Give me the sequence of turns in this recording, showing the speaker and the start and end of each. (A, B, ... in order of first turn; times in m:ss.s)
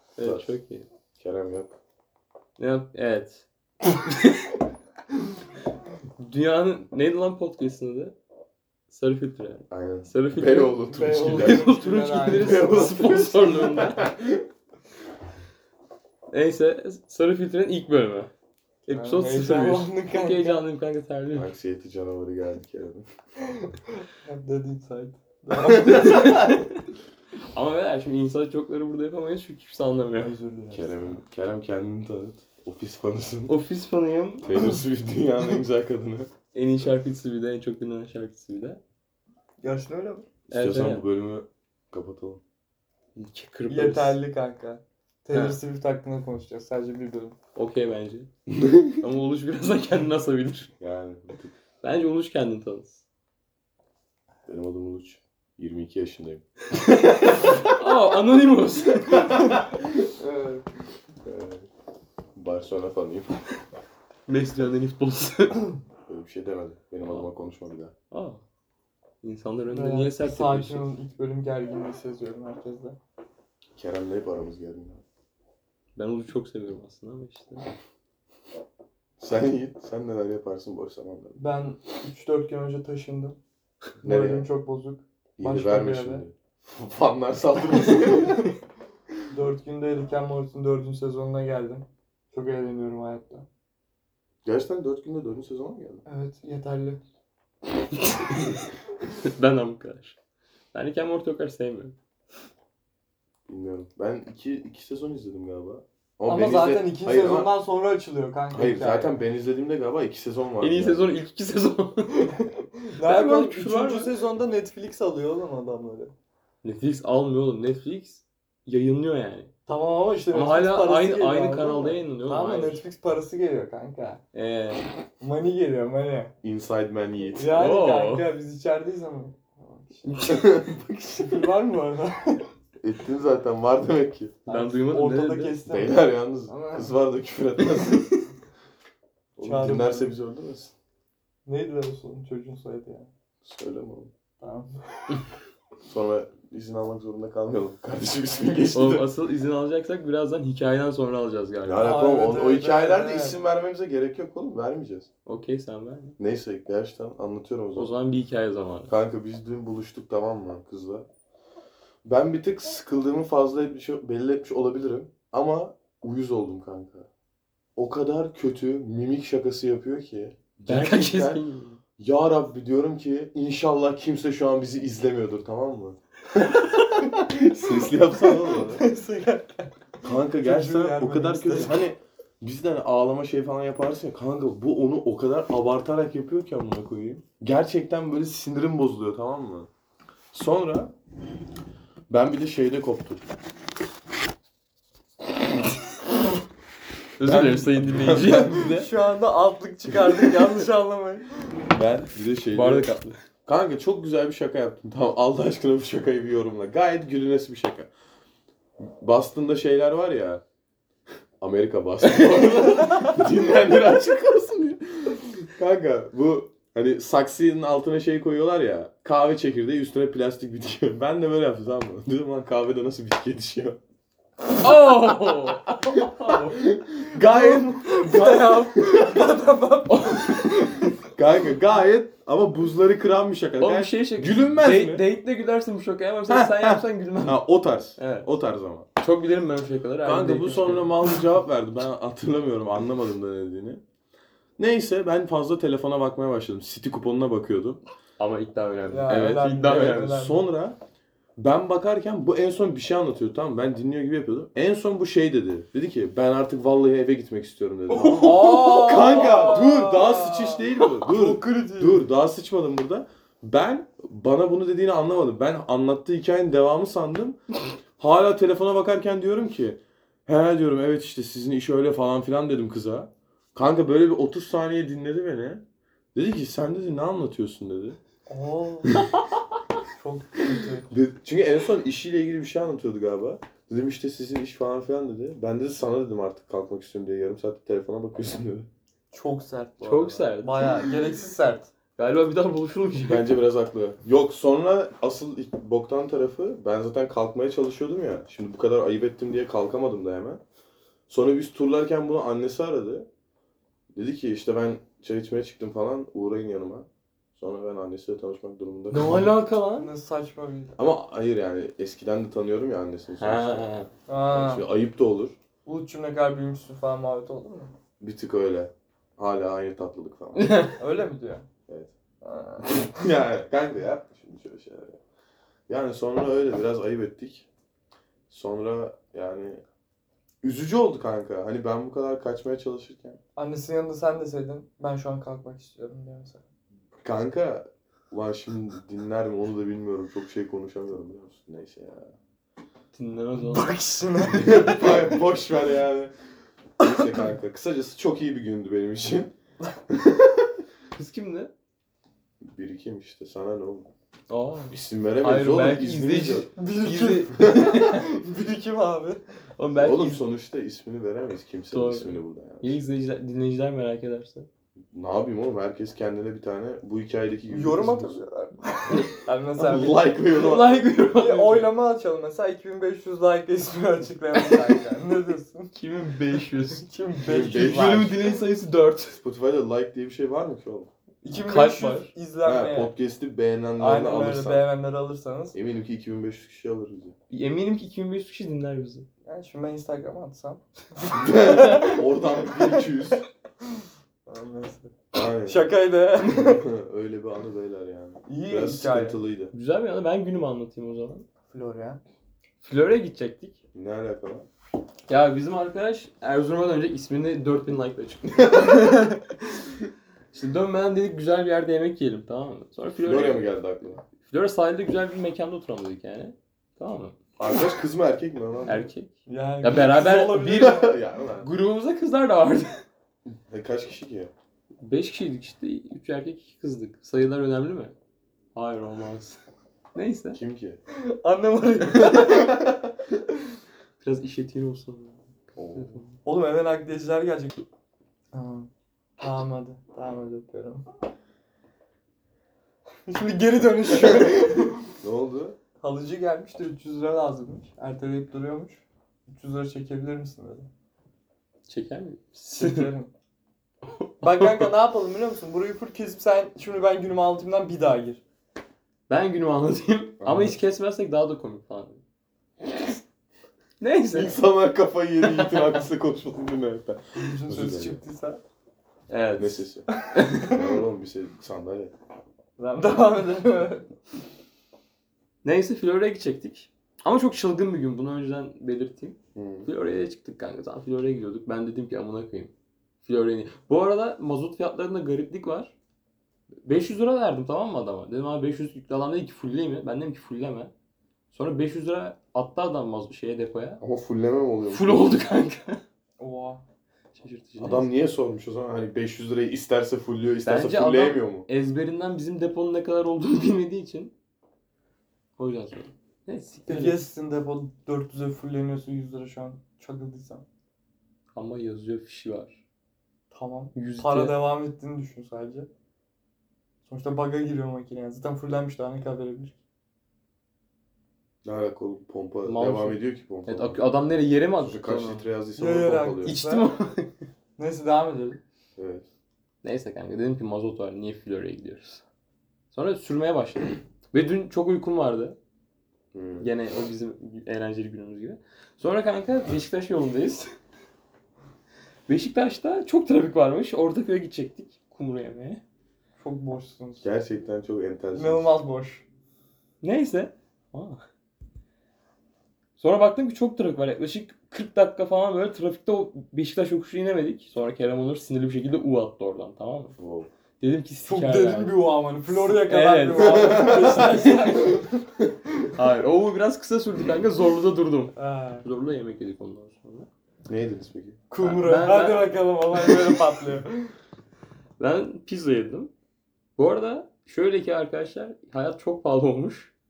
0:00.2-0:00.9 A
0:00.2-0:00.5 B
0:01.2-0:01.8 B
0:02.6-0:04.6 A
0:06.2-0:08.1 A
0:08.9-0:14.1 A
0:09.7-0:11.8 B
0:10.9-0:13.7 C
0:12.3-0:14.4 B
0:16.3-0:18.3 A
0:18.9-0:20.6 C
0:18.9-0:21.5 A
0:21.3-0:23.5 B
0:24.1-0:26.5 C
0:25.7-0:26.6 B
0:25.9-0:26.8 A
0:27.5-0:30.3 A
0:30.2-0:31.2 C
0:30.7-0:33.5 B
0:33.5-0:34.5 A
0:34.4-0:36.3 B
0:36.5-0:38.8 A
0:39.6-0:40.3 C
0:40.5-0:41.0 A
0:40.5-0:42.4 B
0:43.2-0:44.2 A
0:43.7-0:47.4 C
0:45.3-0:45.6 A
0:47.5-0:48.3 A
0:48.5-0:49.0 B
0:49.0-0:50.7 A
0:50.8-0:51.5 B
0:51.8-0:53.0 A
0:54.5-0:56.4 B
0:57.4-0:59.4 A
0:59.1-0:59.8 B
1:00.2-1:00.6 C
1:01.2-1:01.7 B
1:02.3-1:03.4 B
1:04.3-1:05.6 A
1:06.1-1:07.9 B
1:08.1-1:08.4 A
1:09.2-1:10.9 A
1:09.7-1:13.0 C
1:13.8-1:15.0 B
1:16.0-1:17.6 A
1:19.2-1:21.4 B
1:21.4-1:23.4 C
1:24.0-1:24.5 B
1:24.0-1:26.2 C
1:25.4-1:28.5 B
1:29.3-1:33.4 C
1:34.4-1:36.0 B
1:36.0-1:37.0 C
1:38.2-1:38.6 A
1:39.2-1:40.2 A
1:40.7-1:41.9 A
1:43.5-1:47.5 B
1:46.2-1:49.2 C
1:48.5-1:51.1 B
1:50.6-1:54.1 A
1:52.9-1:56.1 C
1:56.6-1:59.5 A
1:59.7-2:04.2 C
2:00.3-2:02.8 A
2:04.3-2:04.9 A
2:05.2-2:06.3 C
2:06.4-2:07.6 B
2:07.3-2:12.5 C
2:07.5-2:08.3 A
2:10.2-2:11.3 B
2:12.8-2:14.5 B
2:14.5-2:15.6 A
2:14.5-2:16.9 C
2:15.6-2:18.2 B
2:19.4-2:20.7 B
2:19.4-2:20.1 C
2:21.4-2:23.1 C
2:23.4-2:24.1 B
2:24.4-2:24.8 C
2:25.8-2:29.1 B
2:28.7-2:32.0 A
2:31.6-2:35.1 B
2:31.8-2:33.4 C
2:35.2-2:36.2 A
2:36.2-2:37.9 B
2:37.7-2:38.9 A
2:38.9-2:41.1 B
2:42.0-2:47.1 B
2:47.8-2:51.4 B
2:50.7-2:51.8 A
2:52.0-2:58.8 B
2:58.1-2:59.7 C
3:00.0-3:09.7 B
3:00.4-3:01.8 C
3:10.3-3:10.9 B
3:12.1-3:13.2 B
3:17.2-3:18.9 A
3:17.2-3:18.7 B
3:18.3-3:21.3 C
3:21.7-3:22.9 B
3:22.5-3:23.2 A
3:23.4-3:27.9 B
3:28.8-3:30.4 B
3:31.4-3:43.8 B
3:32.0-3:32.6 A
3:44.6-3:46.6 A
3:46.3-3:49.2 B
3:47.1-3:50.9 C
3:49.9-3:50.7 A
3:51.1-3:55.0 B
3:53.6-3:57.4 A
3:56.3-3:58.9 B
3:58.0-3:58.3 A
3:59.0-4:01.0 A
4:00.0-4:03.8 B
4:04.6-4:07.8 B
4:08.2-4:10.2 A
4:08.9-4:10.5 C
4:09.1-4:10.8 B
4:11.4-4:27.4 B
4:17.9-4:19.5 A
4:18.0-4:22.0 C
4:28.0-4:35.6 B
4:36.1-4:38.0 B
4:38.3-4:39.0 C
4:40.0-4:40.9 C
4:40.9-4:48.7 B
4:49.1-4:51.7 C
4:49.8-4:50.8 A
4:52.0-4:53.3 A
4:53.0-5:00.4 B
5:01.1-5:03.1 B
5:03.9-5:09.3 B
5:08.9-5:09.9 A
5:09.8-5:10.8 C
5:10.8-5:13.7 B
5:13.2-5:13.9 A
5:14.1-5:14.6 C
5:14.3-5:15.4 B
5:15.6-5:17.7 C
5:18.0-5:20.6 B
5:20.3-5:20.8 A
5:20.7-5:21.4 C
5:22.2-5:23.1 C
5:22.7-5:25.0 B
5:25.7-5:27.5 B
5:28.3-5:29.6 B
5:30.4-5:33.2 B
5:33.4-5:36.4 C
5:37.0-5:42.1 B
5:42.9-5:43.7 A
5:43.4-5:45.2 C
5:44.3-5:46.1 B
5:46.8-5:49.3 B
5:49.9-5:50.5 B
5:51.0-5:51.5 A
5:52.4-5:53.9 B
5:54.3-5:58.0 A
5:54.7-5:56.5 B
5:56.5-5:59.2 C
5:57.4-5:57.7 B
5:59.6-6:00.2 A
5:59.8-6:02.8 B
6:01.7-6:04.5 A
6:04.9-6:08.2 B
6:07.5-6:10.1 C
6:09.6-6:10.8 B
6:10.3-6:11.7 A
6:11.0-6:15.7 C
6:15.7-6:16.8 A
6:16.3-6:18.4 C
6:17.2-6:18.2 B
6:17.4-6:19.2 A
6:19.2-6:20.9 B
6:21.2-6:22.9 C
6:21.3-6:22.1 A
6:22.4-6:24.6 B
6:23.8-6:25.6 C
6:25.5-6:27.1 B
6:27.3-6:29.0 A
6:29.2-6:36.6 C
6:31.1-6:33.2 B
6:35.1-6:35.6 B
6:36.2-6:39.5 B
6:38.3-6:39.2 C
6:39.5-6:41.2 A
6:41.5-6:42.0 C
6:42.6-6:43.6 A
6:43.7-6:44.4 B
6:45.1-6:48.9 A
6:48.5-6:49.2 C
6:50.3-6:53.5 A
6:53.0-6:54.0 B
6:54.2-6:57.1 A
6:57.4-6:58.9 B
6:58.6-7:00.8 A
6:59.2-7:01.0 C
7:00.4-7:01.5 B
7:01.4-7:02.8 A
7:03.3-7:04.3 B
7:04.8-7:07.9 A
7:08.5-7:09.4 A
7:09.9-7:10.4 A
7:10.3-7:10.8 B
7:10.9-7:12.8 C
7:12.0-7:12.2 A
7:12.2-7:12.7 B
7:14.0-7:15.2 A
7:15.6-7:16.0 B
7:15.7-7:16.2 A
7:16.2-7:17.6 C
7:18.3-7:20.8 C
7:23.1-7:24.8 C
7:24.0-7:24.4 B
7:25.0-7:25.6 B
7:25.8-7:30.7 C
7:31.7-7:32.9 A
7:32.5-7:33.1 C
7:33.8-7:34.6 A
7:34.2-7:38.2 C
7:39.1-7:42.0 A
7:40.2-7:40.6 B
7:43.8-7:44.3 A
7:44.1-7:48.0 B
7:45.2-7:45.7 A
7:47.2-7:48.4 C
7:49.1-7:50.6 A
7:49.4-7:49.8 B
7:50.0-7:50.7 C
7:50.4-7:51.9 B
7:52.6-7:53.9 C
7:55.4-8:02.5 A
7:59.3-7:59.7 B
8:03.0-8:05.7 A
8:06.6-8:10.7 A
8:11.3-8:13.8 A
8:13.8-8:15.1 B
8:14.7-8:15.8 A
8:16.2-8:16.6 C
8:17.1-8:17.9 A
8:17.6-8:21.4 B
8:20.4-8:24.1 A
8:25.4-8:27.0 A
8:26.7-8:30.4 C
8:31.3-8:32.6 A
8:33.3-8:35.7 C
8:33.7-8:34.4 A
8:36.8-8:39.6 C
8:41.4-8:43.8 B
8:42.4-8:45.3 A
8:44.6-8:46.4 B
8:45.6-8:46.7 C
8:46.2-8:47.2 A
8:47.6-8:48.4 C
8:48.8-8:49.0 B
8:49.6-8:52.0 A
8:52.7-8:55.4 A
8:56.1-8:56.5 B
8:56.4-9:00.5 A
9:02.1-9:05.6 A
9:06.2-9:07.0 C
9:07.0-9:08.5 B
9:08.1-9:09.0 C
9:09.8-9:11.0 A
9:12.8-9:19.9 A
9:20.0-9:20.3 B
9:20.6-9:24.7 A
9:21.1-9:25.0 C
9:23.2-9:25.3 B
9:25.7-9:30.1 A
9:28.2-9:28.6 C
9:30.5-9:31.2 B
9:31.3-9:33.9 C
9:31.4-9:33.2 A
9:34.8-9:35.9 A
9:36.6-9:39.7 A